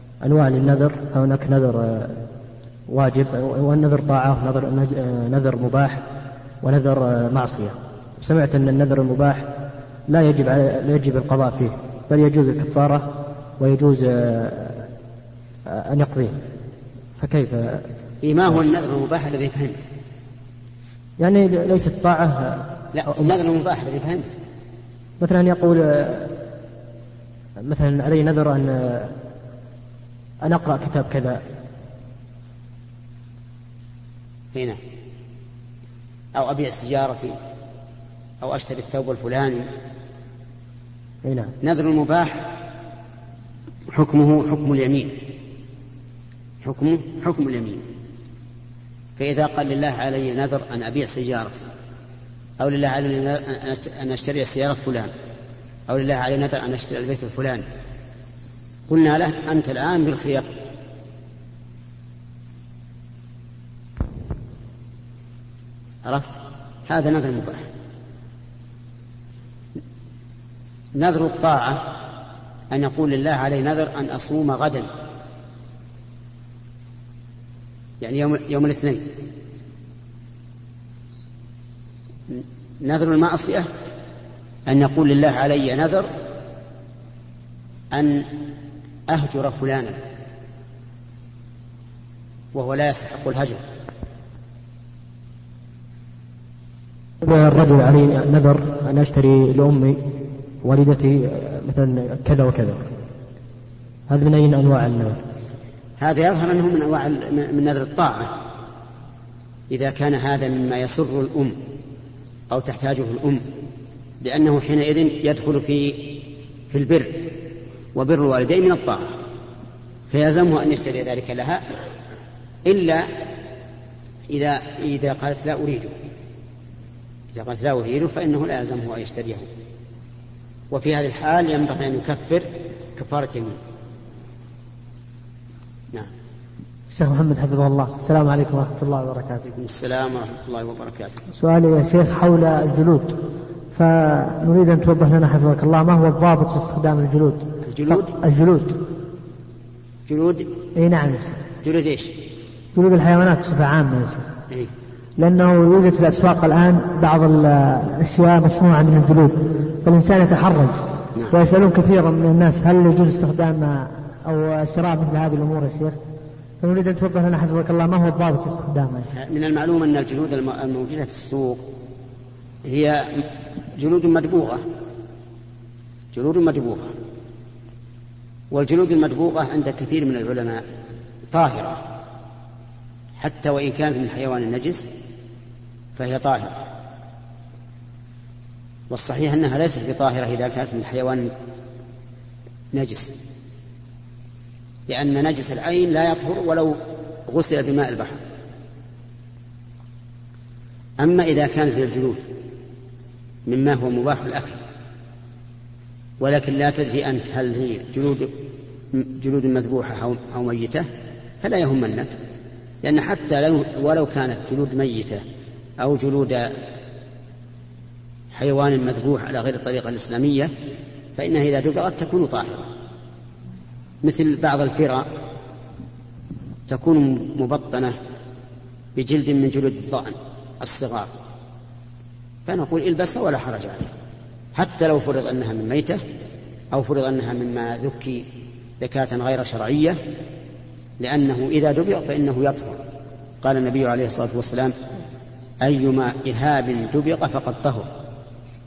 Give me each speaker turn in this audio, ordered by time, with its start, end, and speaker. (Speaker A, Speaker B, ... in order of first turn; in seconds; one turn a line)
Speaker A: 0.2-2.2
Speaker A: 2.9-6.0
Speaker A: 6.6-9.5
Speaker A: 10.1-14.9
Speaker A: 15.7-16.4
Speaker A: 17.2-17.9
Speaker B: 18.2-19.9
Speaker A: 21.2-23.3
Speaker B: 22.9-24.4
Speaker A: 25.2-26.4
Speaker A: 27.6-29.1
Speaker A: 30.4-31.4
Speaker B: 34.5-34.8
Speaker B: 36.3-37.4
Speaker B: 38.4-39.7
Speaker A: 41.2-41.5
Speaker B: 41.6-42.5
Speaker B: 43.9-45.2
Speaker B: 46.6-47.8
Speaker B: 49.2-51.6
Speaker B: 52.6-55.1
Speaker B: 55.9-57.6
Speaker B: 58.9-60.5
Speaker B: 66.0-67.7
Speaker B: 71.0-71.9
Speaker B: 72.7-74.9
Speaker B: 78.0-79.1
Speaker B: 82.3-83.7
Speaker B: 84.7-86.1
Speaker B: 87.9-88.3
Speaker B: 89.1-90.0
Speaker B: 92.5-93.6
Speaker A: 97.2-102.9
Speaker A: 104.1-105.2
Speaker B: 106.0-108.3
Speaker B: 109.7-111.6
Speaker B: 112.5-113.5
Speaker B: 114.2-117.4
Speaker B: 117.9-119.1
Speaker B: 120.1-121.6
Speaker B: 122.6-123.1
Speaker B: 124.3-125.9
Speaker B: 127.3-129.5
Speaker B: 130.7-133.6
Speaker C: 136.9-139.5
Speaker B: 139.5-141.2
Speaker C: 141.3-143.2
Speaker C: 143.7-148.8
Speaker B: 147.6-148.1
Speaker B: 150.1-150.5
Speaker C: 150.7-151.4
Speaker B: 151.6-152.1
Speaker C: 152.7-154.3
Speaker C: 155.2-166.0
Speaker C: 166.6-169.1
Speaker B: 169.1-171.6
Speaker B: 172.6-174.6
Speaker B: 176.1-176.9
Speaker B: 178.5-180.6
Speaker B: 181.3-181.8
Speaker B: 183.2-184.9
Speaker B: 185.9-186.7
Speaker B: 188.9-191.3
Speaker B: 192.7-193.1
Speaker B: 194.9-198.2
Speaker B: 201.0-202.3
Speaker B: 203.4-204.6
Speaker B: 206.2-208.3
Speaker B: 208.9-210.9
Speaker B: 211.4-212.1
Speaker B: 212.8-215.2
Speaker B: 215.8-216.6
Speaker B: 218.3-220.5
Speaker B: 221.2-222.7
Speaker B: 224.0-225.1
Speaker B: 226.7-227.9
Speaker B: 228.9-231.1
Speaker B: 232.4-233.9
Speaker B: 234.5-236.0
Speaker B: 236.7-238.2
Speaker B: 238.8-240.0
Speaker B: 241.0-242.8
Speaker B: 243.4-244.7
Speaker B: 245.6-247.9